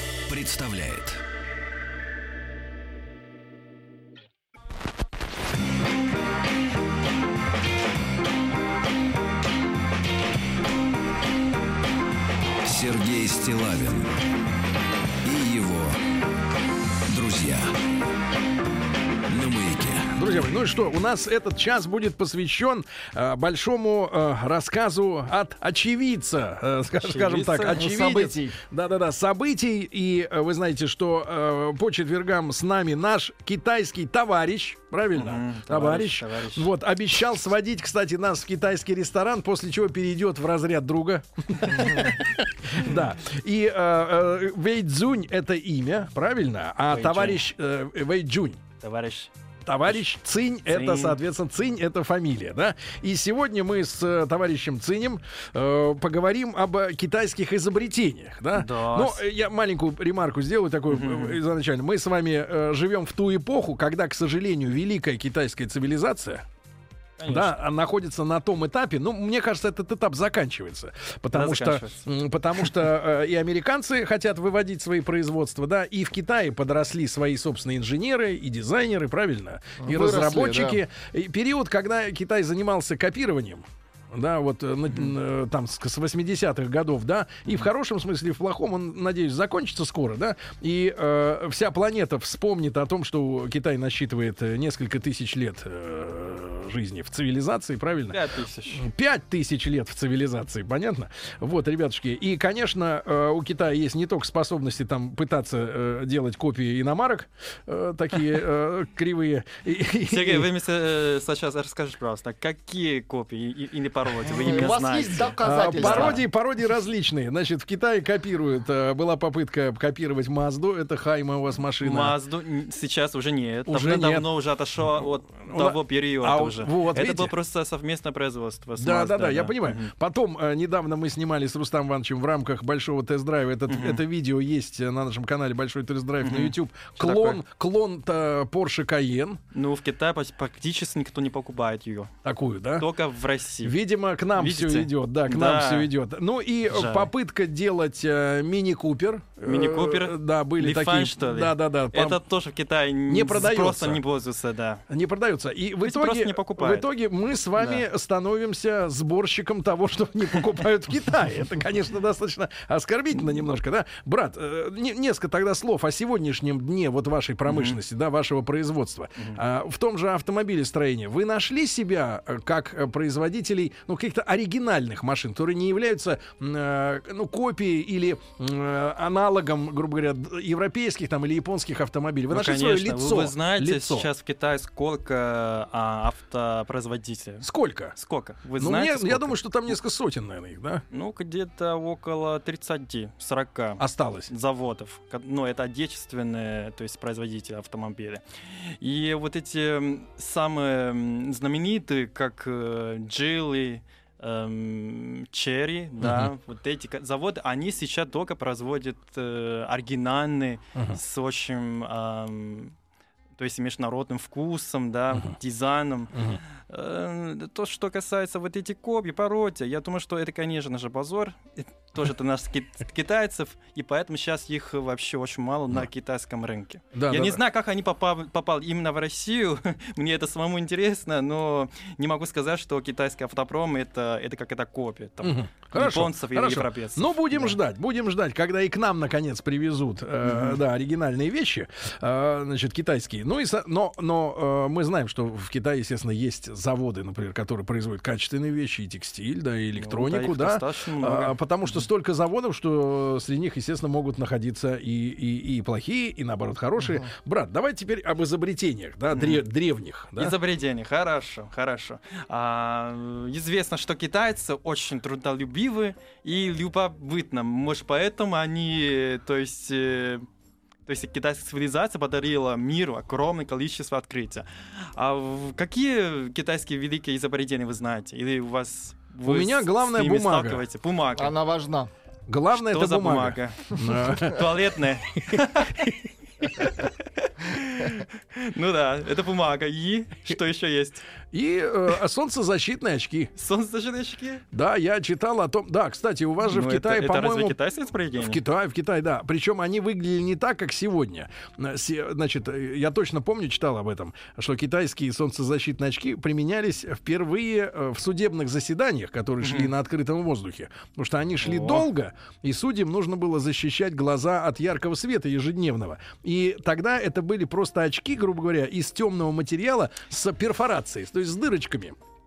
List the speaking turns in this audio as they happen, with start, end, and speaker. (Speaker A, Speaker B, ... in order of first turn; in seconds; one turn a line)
Speaker A: 0.3-1.2
Speaker A: 12.6-14.1
Speaker A: 15.2-16.0
Speaker A: 17.1-17.7
Speaker A: 19.3-20.1
Speaker B: 20.1-48.6
Speaker C: 27.0-27.8
Speaker D: 27.7-28.6
Speaker C: 35.1-36.7
Speaker C: 41.8-42.1
Speaker C: 46.9-47.4
Speaker C: 48.8-49.3
Speaker B: 49.6-66.4
Speaker C: 50.7-51.2
Speaker C: 58.5-59.2
Speaker C: 60.9-61.4
Speaker C: 67.2-67.6
Speaker B: 67.2-98.2
Speaker C: 71.3-72.8
Speaker D: 79.8-80.8
Speaker C: 98.1-98.9
Speaker B: 98.7-110.5
Speaker C: 110.0-116.2
Speaker D: 114.3-116.2
Speaker B: 115.4-122.2
Speaker C: 121.8-129.9
Speaker B: 123.7-124.3
Speaker B: 125.4-127.3
Speaker B: 128.8-139.4
Speaker C: 133.7-134.0
Speaker C: 136.2-137.4
Speaker C: 139.5-142.1
Speaker B: 142.2-142.9
Speaker C: 142.8-143.8
Speaker B: 143.6-152.2
Speaker C: 144.3-145.9
Speaker C: 146.7-147.1
Speaker C: 149.4-154.8
Speaker B: 153.1-154.0
Speaker B: 154.9-184.1
Speaker C: 155.8-156.9
Speaker C: 157.6-157.8
Speaker C: 167.4-167.8
Speaker C: 182.3-189.7
Speaker B: 187.4-187.9
Speaker B: 188.6-190.8
Speaker C: 190.9-212.7
Speaker B: 193.8-194.3
Speaker B: 206.0-206.3
Speaker C: 213.4-237.6
Speaker B: 216.1-216.4
Speaker B: 226.9-227.4
Speaker B: 235.2-260.4
Speaker C: 240.2-240.6
Speaker C: 249.8-251.4
Speaker C: 259.1-259.4
Speaker C: 260.2-270.3
Speaker C: 270.9-281.4
Speaker B: 279.2-280.6
Speaker D: 281.1-281.9
Speaker B: 282.3-285.4
Speaker C: 282.5-291.1
Speaker B: 291.3-293.3
Speaker C: 293.3-294.4
Speaker B: 294.5-297.6
Speaker C: 296.5-298.4
Speaker B: 298.2-322.0
Speaker C: 309.4-309.7
Speaker C: 311.4-311.9